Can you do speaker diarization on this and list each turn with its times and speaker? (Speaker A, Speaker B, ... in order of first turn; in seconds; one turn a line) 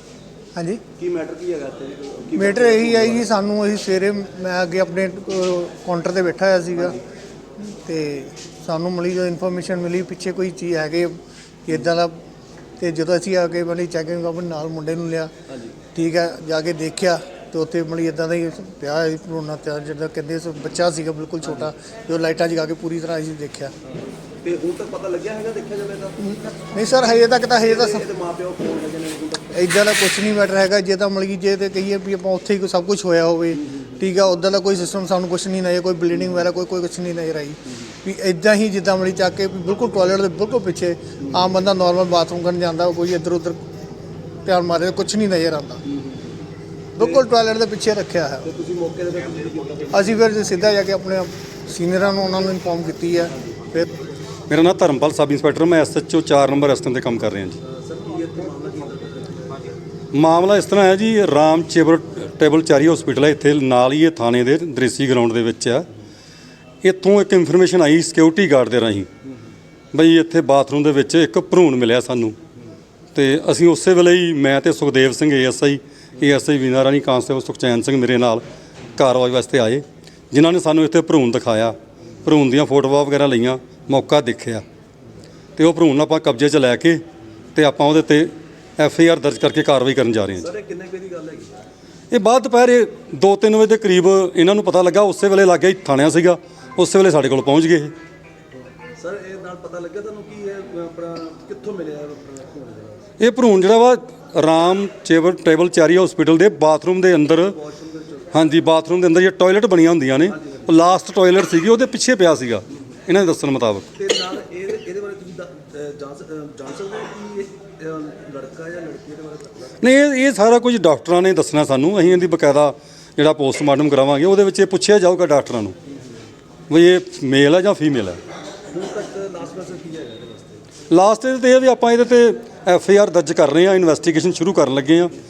Speaker A: 0.5-0.8
Speaker B: 0.9-3.3
Speaker A: 2.3-7.0
Speaker B: 6.7-7.0
Speaker A: 7.6-12.2
Speaker A: 12.8-15.3
Speaker B: 15.5-15.7
Speaker A: 15.9-23.7
Speaker B: 21.4-21.7
Speaker B: 24.4-26.7
Speaker A: 26.2-28.1
Speaker B: 27.6-29.6
Speaker A: 29.5-43.6
Speaker B: 33.5-34.0
Speaker A: 44.4-45.8
Speaker B: 45.9-46.3
Speaker A: 46.9-48.5
Speaker B: 47.0-47.3
Speaker B: 48.4-50.3
Speaker A: 49.9-53.9
Speaker C: 54.5-57.6
Speaker B: 57.6-59.7
Speaker C: 60.1-65.8
Speaker C: 66.8-69.1
Speaker C: 69.9-72.3
Speaker C: 73.1-78.4
Speaker C: 79.0-84.6
Speaker C: 85.6-87.0
Speaker C: 87.5-90.5
Speaker B: 90.4-91.5
Speaker C: 92.1-97.9
Speaker B: 99.0-103.1
Speaker C: 103.2-107.6
Speaker B: 107.5-108.5
Speaker C: 108.3-113.9
Speaker B: 110.3-110.7
Speaker B: 114.0-119.7
Speaker C: 119.8-125.7
Speaker C: 126.7-128.2
Speaker B: 128.7-130.6
Speaker C: 130.9-135.1